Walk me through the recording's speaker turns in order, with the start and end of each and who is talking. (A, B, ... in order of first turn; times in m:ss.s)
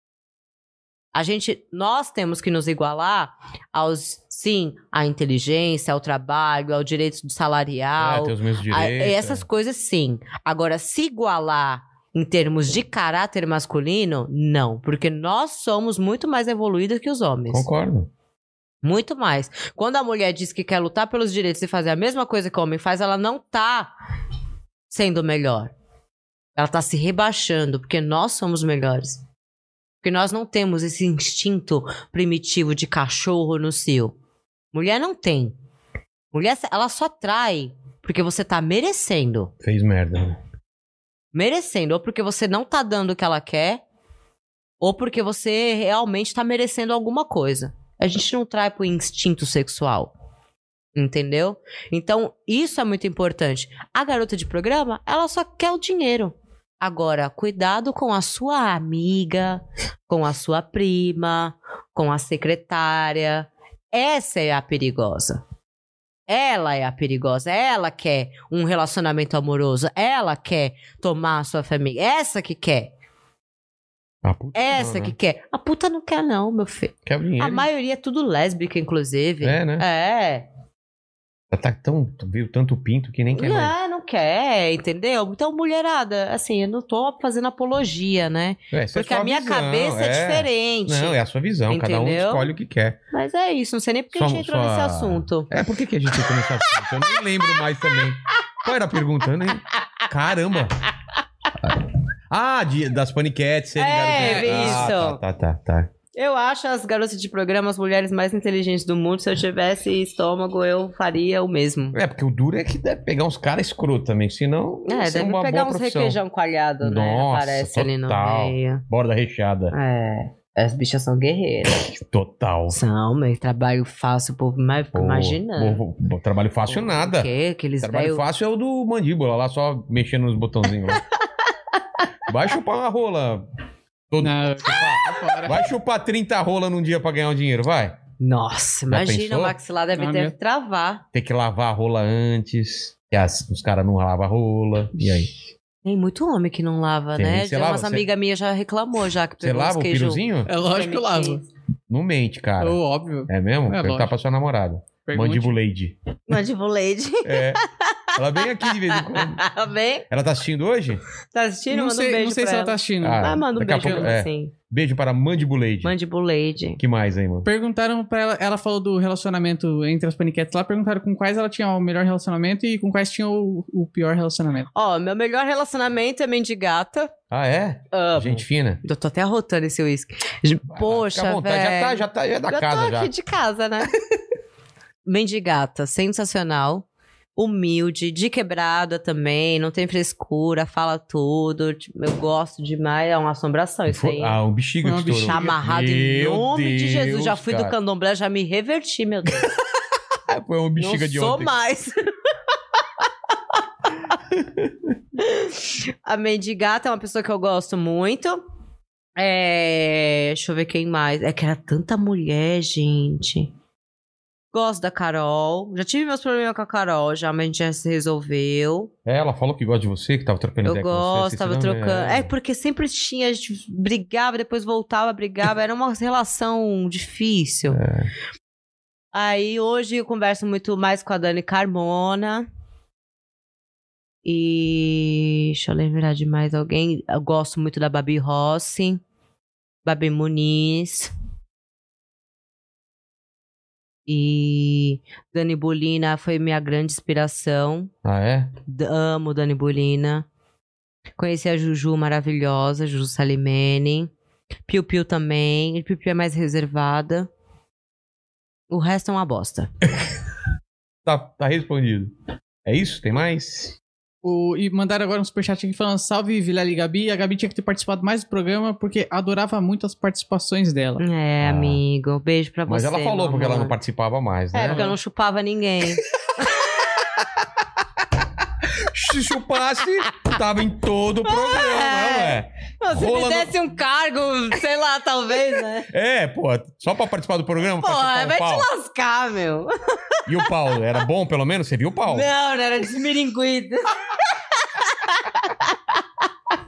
0:01.1-0:17.6 A
0:08.0-0:09.4 B
0:17.5-0:18.1 B
0:18.8-0:23.9 A
0:24.9-0:25.7 A
0:26.6-0:29.2 A
0:30.0-0:34.1 A
0:34.7-0:35.5 A
0:36.3-0:39.5 A
0:39.6-0:40.4 B
0:41.3-0:43.8 A
0:44.8-0:50.1 A
0:51.0-1:05.4 A
1:06.3-1:12.9 A
1:14.2-1:15.2 B
1:14.5-1:20.5 A
1:17.0-1:17.7 B
1:19.4-1:19.8 B
1:21.5-1:23.7 B
1:23.3-1:32.5 A
1:28.7-1:33.0 B
1:33.1-1:35.5 A
1:34.1-1:40.8 B
1:39.8-1:40.0 A
1:41.6-1:45.9 B
1:43.8-1:45.2 A
1:44.1-1:44.9 C
1:46.1-1:52.0 A
1:51.9-1:56.2 B
1:54.8-1:58.8 A
1:56.8-1:59.7 B
1:59.7-2:01.8 A
2:01.7-2:02.8 B
2:02.7-2:05.8 A
2:04.9-2:11.0 B
2:06.7-2:08.2 A
2:12.3-2:13.4 B
2:14.1-2:18.0 B
2:14.2-2:15.6 C
2:18.2-2:21.0 A
2:18.9-2:19.6 B
2:20.0-2:20.3 C
2:21.1-2:25.3 B
2:25.8-2:31.5 A
2:27.2-2:28.0 B
2:29.4-2:30.5 B
2:30.4-2:31.4 C
2:31.9-2:35.9 B
2:32.6-2:34.1 C
2:35.0-2:35.6 C
2:36.3-2:40.1 A
2:37.2-2:37.6 B
2:38.1-2:39.4 B
2:40.1-2:41.0 B
2:41.3-2:44.5 A
2:41.7-2:44.1 C
2:43.0-2:45.9 B
2:45.8-2:46.8 A
2:46.8-2:47.5 B
2:47.4-2:54.7 C
2:54.7-2:57.1 A
2:57.3-2:58.8 B
2:57.9-3:03.9 A
3:00.7-3:03.1 B
3:05.0-3:06.8 A
3:07.4-3:14.4 A
3:13.9-3:17.7 B
3:14.8-3:15.6 C
3:15.2-3:19.6 A
3:20.3-3:21.5 B
3:20.8-3:22.0 A
3:24.3-3:24.7 B
3:25.2-3:28.4 A
3:29.2-3:33.5 A
3:34.5-3:38.9 A
3:39.0-3:42.3 B
3:40.6-3:47.8 A
3:47.7-3:48.1 B
3:49.1-3:52.5 A
3:54.2-3:59.0 A
3:59.8-4:01.1 A
4:04.1-4:07.9 A
4:08.0-4:08.5 B
4:08.6-4:10.2 A
4:11.2-4:14.1 A
4:14.7-4:17.3 A
4:18.7-4:19.7 A
4:21.0-4:22.1 B
4:22.6-4:23.8 B
4:24.2-4:31.0 C
4:31.0-4:33.8 A
4:31.4-4:31.8 B
4:32.7-4:34.9 B
4:34.5-4:36.7 A
4:38.6-4:43.5 B
4:41.2-4:45.9 A
4:45.9-4:48.7 B
4:47.8-4:50.5 A
4:50.2-4:52.3 B
4:52.1-4:56.0 A